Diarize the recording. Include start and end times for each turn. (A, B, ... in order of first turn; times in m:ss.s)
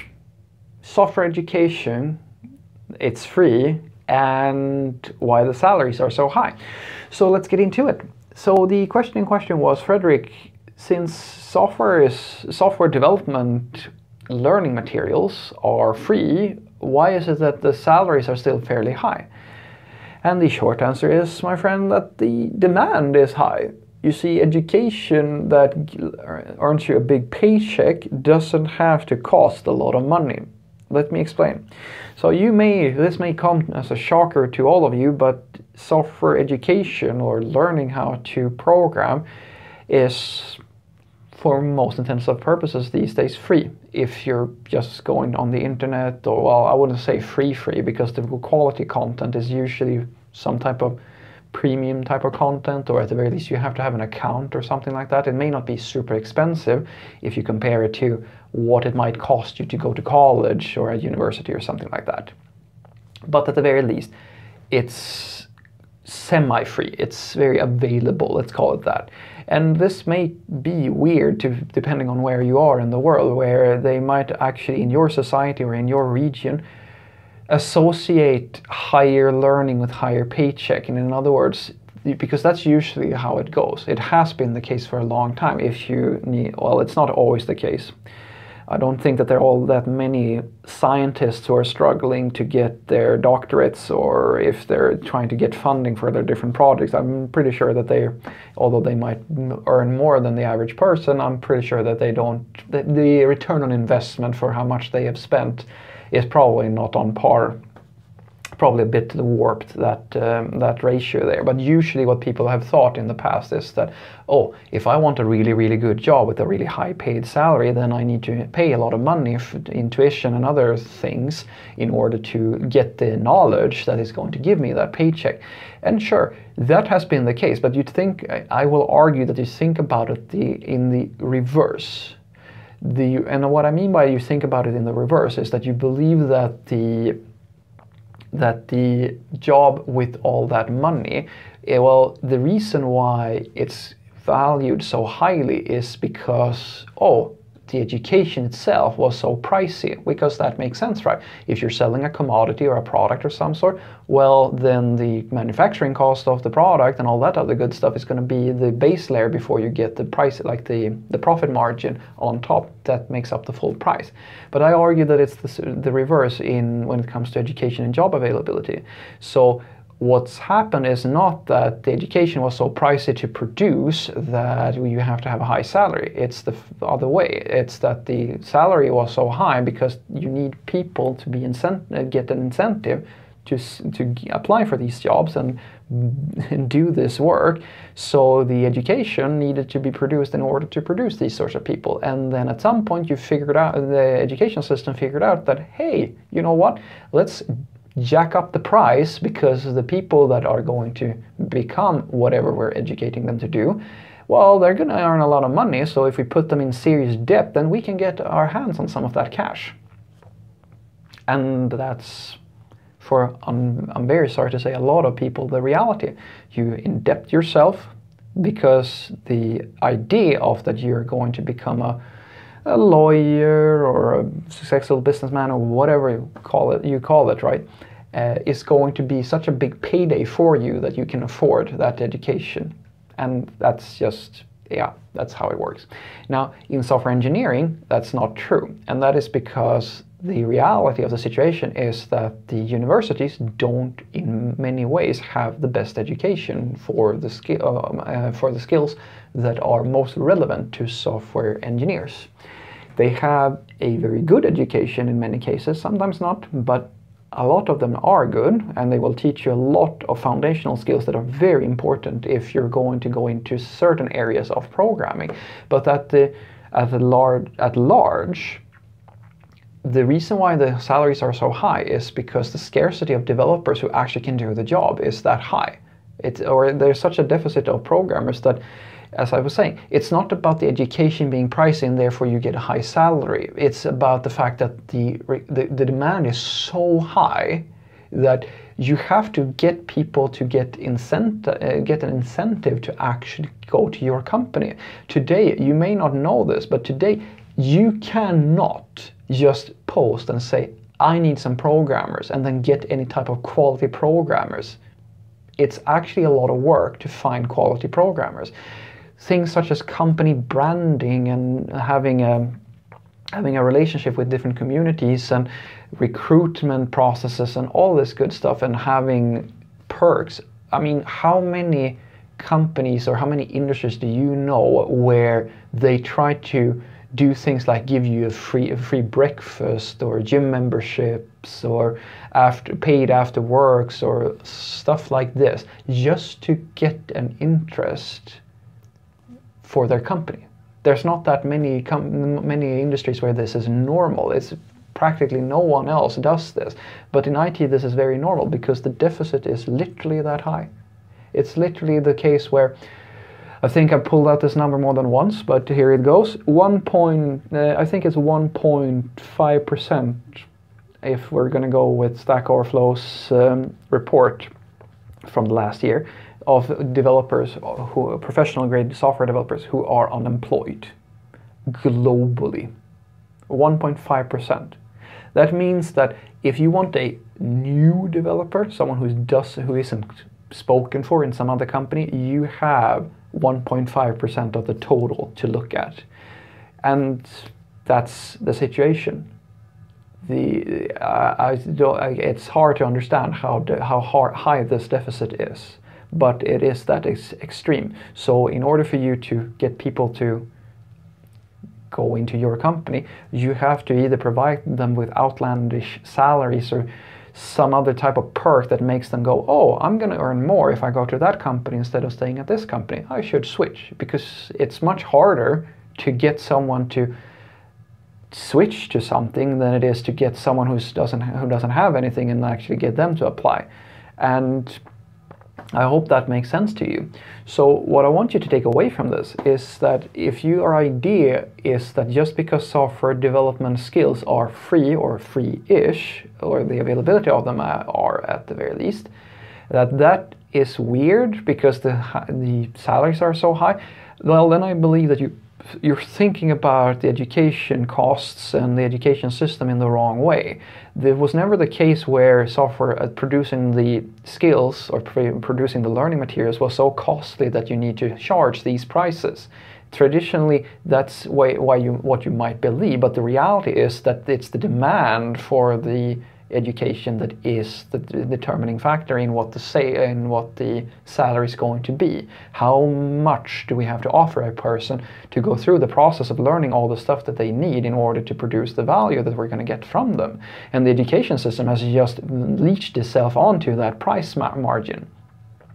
0:00.8-0:02.2 A
0:03.0-0:06.5 A
0:07.1-0:19.2 A
0:20.2-0:31.6 A
0:32.2-0:39.2 A
0:39.9-0:40.6 A
0:41.3-0:51.0 A
0:51.5-1:02.3 A
1:03.3-1:04.1 A
1:04.7-1:05.5 A
1:06.0-1:16.6 A
1:17.5-1:27.9 A
1:28.7-1:47.6 A
1:48.6-2:12.2 A
2:12.8-2:17.2 A
2:18.3-3:29.7 A
3:31.3-3:32.4 A
3:33.0-3:42.0 A
3:42.6-4:12.3 A
4:13.0-4:28.6 A
4:29.8-4:38.6 A
4:39.1-5:04.8 A
5:05.6-5:08.5 A
5:09.2-5:12.6 A
5:13.3-5:38.4 A
5:39.6-5:50.7 A
5:51.3-5:52.8 A
5:53.6-6:00.4 A
6:01.0-6:04.5 A
6:05.2-6:10.9 A
6:11.7-6:12.7 A
6:13.5-6:14.8 A
6:15.3-6:26.0 A
6:26.8-6:29.3 A
6:30.2-6:40.5 A
6:41.9-6:57.1 A
6:58.3-7:03.6 A
7:04.2-7:04.8 A
7:05.7-7:19.1 A
7:19.7-8:05.1 A